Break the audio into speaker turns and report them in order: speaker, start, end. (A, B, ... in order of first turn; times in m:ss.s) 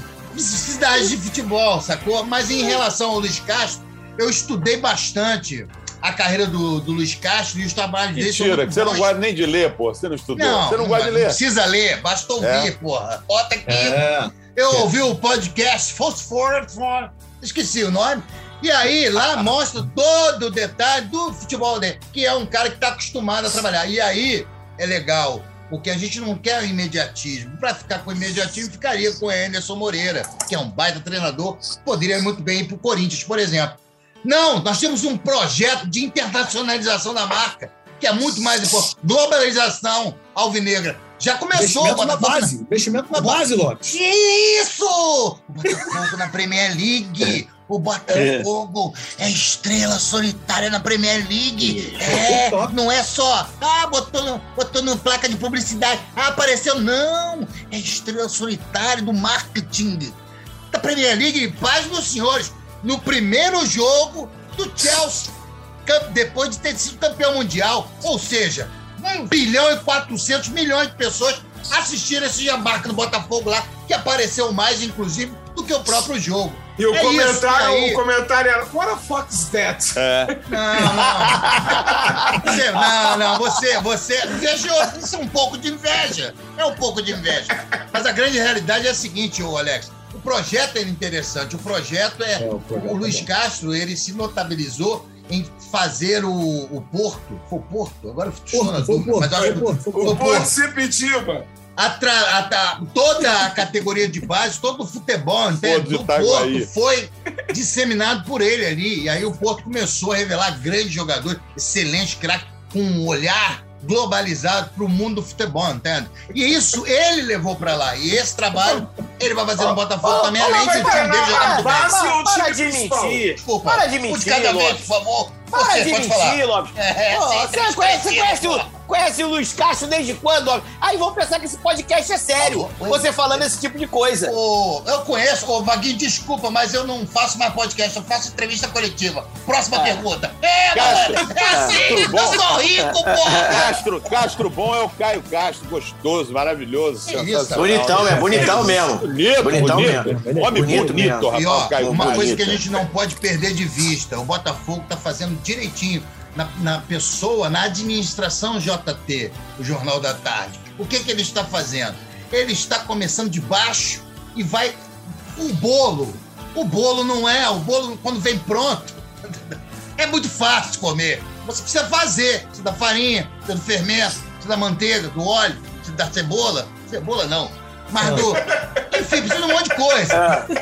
0:00.3-0:09.1 A
0:08.1-0:11.4 B
0:10.4-0:14.0 A
0:12.4-0:12.7 B
0:13.7-0:14.9 C
0:14.5-0:42.5 A
0:41.5-0:44.0 C
0:43.1-1:00.2 A
0:48.1-0:48.5 D
0:51.6-0:52.8 C
1:00.7-1:18.0 A
1:16.8-1:20.5 E
1:20.0-1:20.3 B
1:20.5-1:40.6 A
1:21.3-1:22.5 D
1:32.4-1:33.3 C
1:38.5-1:40.2 C
1:39.4-1:41.5 E
1:41.8-2:02.0 A
1:45.6-1:46.7 B
2:00.0-2:04.9 D
2:00.1-2:03.3 E
2:03.4-2:08.7 A
2:05.5-2:14.4 D
2:12.4-2:13.1 A
2:14.3-2:23.8 A
2:19.7-2:20.0 D
2:20.7-2:22.5 B
2:21.2-2:22.2 D
2:22.8-2:23.6 D
2:23.5-2:32.7 B
2:27.1-2:28.7 A
2:27.6-2:31.3 D
2:27.9-2:28.9 C
2:29.4-2:31.2 C
2:31.3-3:00.3 A
2:31.8-2:32.4 D
2:58.0-2:58.3 C
2:58.5-2:58.8 E
3:00.1-3:00.5 D